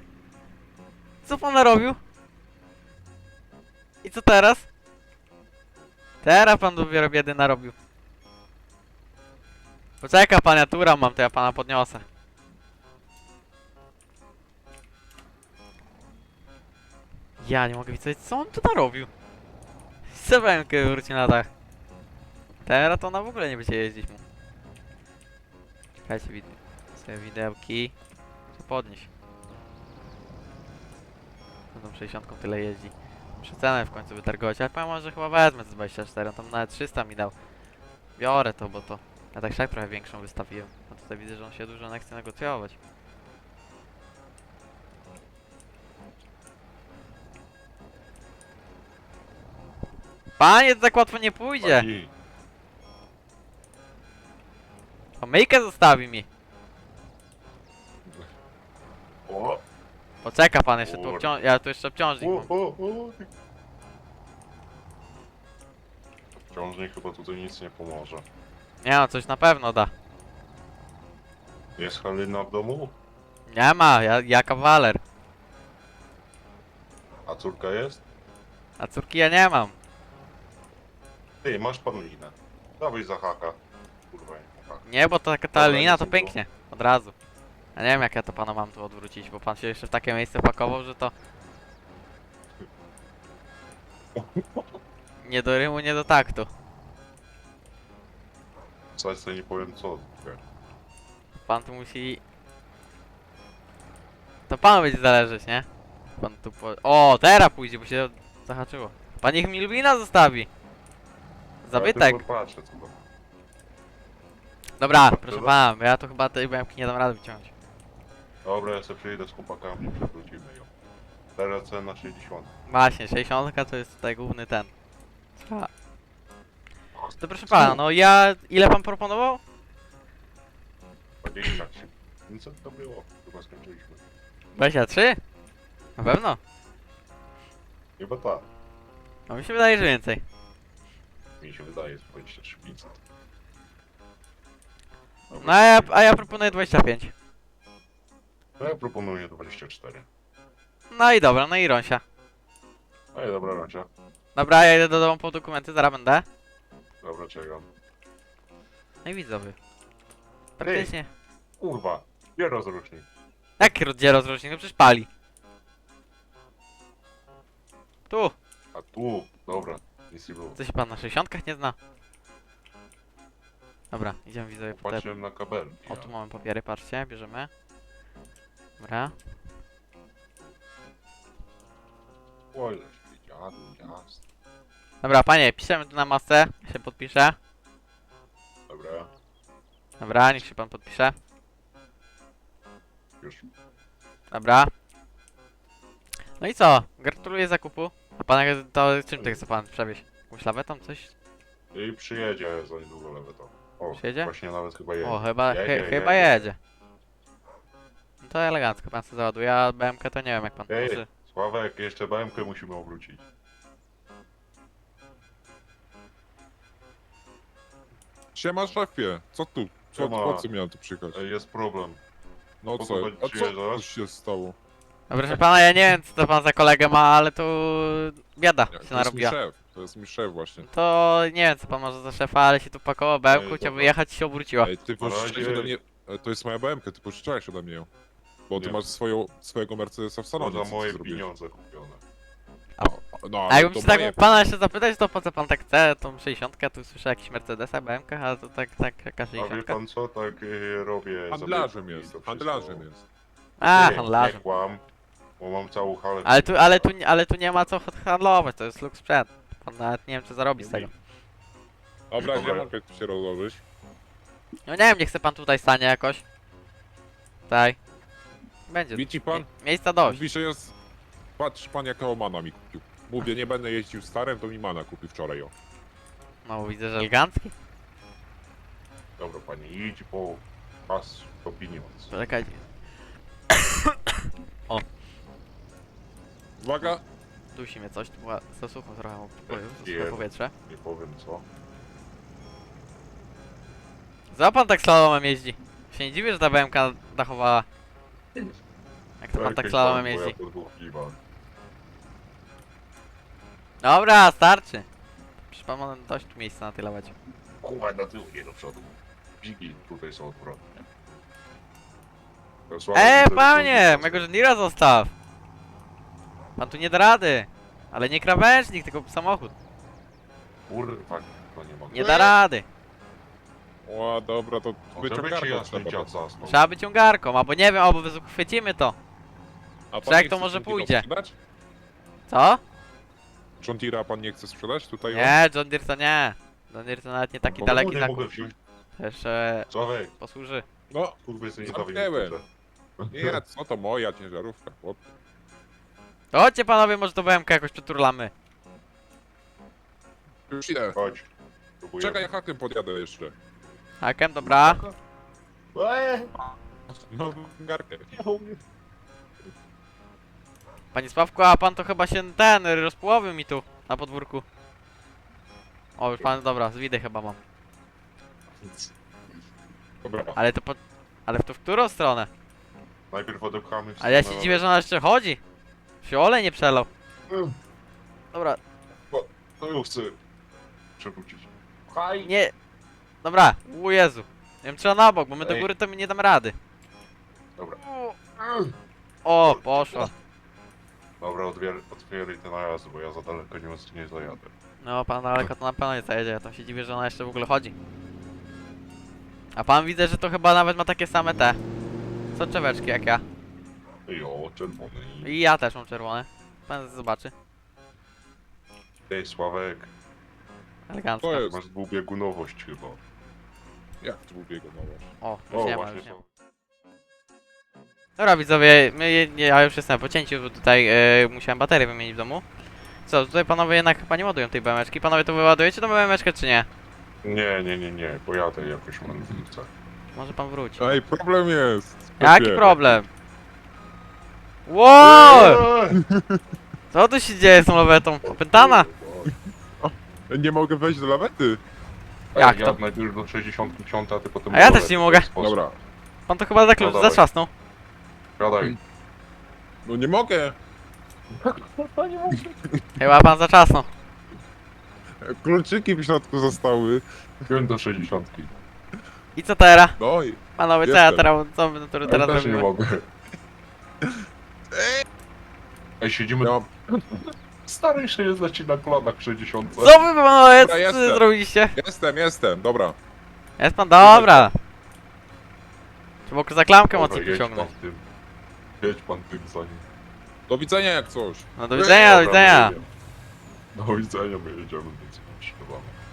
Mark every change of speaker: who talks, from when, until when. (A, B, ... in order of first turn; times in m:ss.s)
0:01.2-0:02.0 A
0:04.0-0:04.7 A
0:06.2-0:07.8 A
0:10.0-0:12.0 A
0:17.4-0:19.1 A
0:20.1-0:21.5 A
0:22.6-0:24.2 A
0:26.0-0:27.9 A
0:28.5-0:29.1 A
0:31.7-0:37.3 A
0:38.2-0:42.8 A
0:50.4-0:51.9 A
0:51.6-0:52.1 B
0:55.2-0:56.3 A
0:59.3-0:59.6 B
1:00.2-1:02.5 A
1:00.8-1:01.4 B
1:02.2-1:03.3 B
1:06.4-1:08.3 B
1:08.8-1:09.9 A
1:11.8-1:13.0 B
1:13.5-1:15.0 A
1:17.3-1:18.0 B
1:18.8-1:19.8 A
1:21.4-1:24.8 B
1:24.8-1:27.1 A
1:25.5-1:26.4 B
1:27.8-1:31.1 A
1:34.2-1:34.7 B
1:35.2-1:36.5 A
1:39.0-1:40.4 B
1:41.4-1:42.2 A
1:44.5-1:50.5 A
1:51.6-1:52.2 A
1:51.7-1:53.0 B
1:54.8-1:57.5 A
1:54.9-1:55.6 B
1:58.4-2:00.7 B
2:01.4-2:02.5 B
2:02.7-2:04.7 A
2:05.4-2:05.7 A
2:07.0-2:07.8 B
2:07.2-2:09.4 A
2:11.2-2:14.0 B
2:14.6-2:15.2 A
2:16.0-2:16.4 A
2:18.0-2:18.5 B
2:19.3-2:20.2 A
2:21.4-2:23.0 B
2:25.3-2:26.4 B
2:25.3-2:27.1 A
2:28.6-2:30.1 B
2:30.9-2:32.0 A
2:33.1-2:33.9 B
2:34.4-2:36.3 A
2:37.0-2:37.7 B
2:39.0-2:39.6 A
2:40.6-2:41.1 A
2:40.6-2:40.9 B
2:41.6-2:43.1 B
2:43.6-2:45.1 A
2:48.1-2:48.4 A
2:48.7-2:50.6 B
2:50.6-2:51.8 A
2:53.9-2:55.0 A
2:54.7-2:56.1 B
2:55.9-2:57.5 A
2:58.8-2:59.2 A
3:02.5-3:04.2 B
3:05.0-3:07.4 A
3:08.7-3:09.1 B
3:10.0-3:11.2 A
3:13.2-3:13.5 B
3:14.3-3:14.7 A
3:16.4-3:21.1 A
3:21.7-3:26.5 B
3:24.0-3:24.3 A
3:25.0-3:26.6 A
3:28.2-3:31.1 A
3:30.7-3:33.2 B
3:38.4-3:41.2 C
3:40.0-3:40.5 B
3:41.1-3:42.0 B
3:42.6-3:44.6 C
3:42.7-3:43.8 B
3:45.1-3:49.4 A
3:48.7-3:50.7 C
3:50.6-3:54.7 A
3:53.3-3:53.9 B
3:54.6-3:57.9 C
3:55.0-3:55.7 B
3:58.5-4:01.2 C
3:58.6-3:58.8 B
4:00.4-4:02.0 B
4:02.8-4:04.3 C
4:03.5-4:09.8 A
4:09.4-4:12.9 B
4:11.3-4:13.0 C
4:13.6-4:14.4 A
4:13.6-4:14.8 B
4:15.4-4:16.9 B
4:16.2-4:20.9 A
4:20.6-4:20.9 B
4:22.1-4:23.6 C
4:22.2-4:22.7 B
4:24.7-4:26.2 A
4:27.5-4:27.8 A
4:28.7-4:30.2 A
4:28.9-4:29.5 C
4:30.0-4:30.7 C
4:31.4-4:35.5 C
4:36.4-4:37.5 A
4:39.2-4:42.1 B
4:42.1-4:42.7 A
4:46.6-4:47.0 C
4:47.6-4:50.5 A
4:49.5-4:51.5 B
4:54.3-4:57.7 A
4:59.2-5:00.4 A
4:59.4-5:01.2 B
5:03.8-5:04.9 A
5:05.4-5:07.1 A
5:07.6-5:10.8 B
5:12.7-5:14.3 B
5:12.9-5:15.1 A
5:16.6-5:19.5 A
5:20.7-5:22.0 B
5:21.9-5:22.7 A
5:22.0-5:22.3 C
5:23.8-5:26.1 C
5:24.9-5:26.7 B
5:26.4-5:29.0 A
5:29.9-5:31.3 C
5:30.0-5:31.1 A
5:32.3-5:32.6 A
5:33.6-5:35.4 C
5:35.1-5:38.5 A
5:37.4-5:38.5 B
5:39.0-5:40.6 A
5:39.7-5:40.1 B
5:40.9-5:42.4 C
5:41.2-5:42.4 B
5:43.0-5:43.4 B
5:43.1-5:45.0 C
5:46.3-5:48.3 A
5:50.5-5:51.0 C
5:50.9-5:52.3 B
5:52.0-5:53.3 C
5:54.0-5:54.8 A
5:54.4-5:54.9 B
5:55.7-5:56.3 B
5:56.4-5:58.1 C
5:58.1-5:58.6 B
6:00.9-6:04.4 A
6:06.0-6:07.4 A
6:08.6-6:08.9 B
6:10.0-6:10.4 C
6:10.4-6:12.3 A
6:13.1-6:14.7 B
6:14.0-6:15.4 A
6:16.0-6:16.9 A
6:17.3-6:17.6 B
6:18.3-6:18.6 A
6:19.1-6:20.2 B
6:21.0-6:22.3 B
6:22.2-6:22.5 A
6:23.2-6:26.6 A
6:25.4-6:25.7 B
6:27.6-6:27.8 B
6:27.8-6:28.2 A
6:28.4-6:28.8 B
6:29.2-6:30.1 A
6:29.4-6:30.1 B
6:31.2-6:34.5 B
6:34.8-6:37.8 A
6:39.6-6:41.6 A
6:42.4-6:43.2 A
6:44.1-6:45.4 B
6:45.2-6:47.3 A
6:49.1-6:49.9 B
6:50.9-6:51.5 A
6:51.2-6:51.6 C
6:51.4-6:53.0 B
6:54.0-6:55.1 C
6:55.2-6:56.2 A
6:55.5-6:56.3 B
6:58.2-7:02.4 A
7:03.1-7:06.7 A
7:07.2-7:09.7 B
7:10.1-7:10.8 A
7:10.8-7:13.0 C
7:12.2-7:13.1 A
7:14.7-7:15.6 A
7:15.0-7:16.0 B
7:15.9-7:16.4 C
7:16.9-7:18.9 A
7:18.2-7:19.3 B
7:19.3-7:21.6 C
7:22.3-7:25.6 B
7:22.4-7:22.8 A
7:24.5-7:25.3 A
7:25.4-7:25.8 C
7:26.3-7:27.5 A
7:26.8-7:27.2 B
7:28.4-7:28.8 B
7:29.8-7:30.6 C
7:31.4-7:31.7 B
7:31.8-7:32.8 C
7:33.0-7:33.9 A
7:35.2-7:37.0 C
7:37.4-7:38.6 B
7:39.4-7:40.0 A
7:40.0-7:41.3 C
7:40.6-7:42.7 A
7:42.1-7:43.1 B
7:44.0-7:45.0 C
7:46.0-7:50.0 B
7:46.4-7:46.7 C
7:49.8-7:51.8 A
7:50.6-7:53.0 C
7:53.6-7:54.6 A
7:54.0-7:54.5 C
7:56.3-7:57.7 A
7:56.9-7:58.0 B
7:58.8-7:59.9 B
8:00.5-8:01.5 C
8:01.6-8:02.7 A
8:01.7-8:02.9 B
8:03.7-8:06.0 B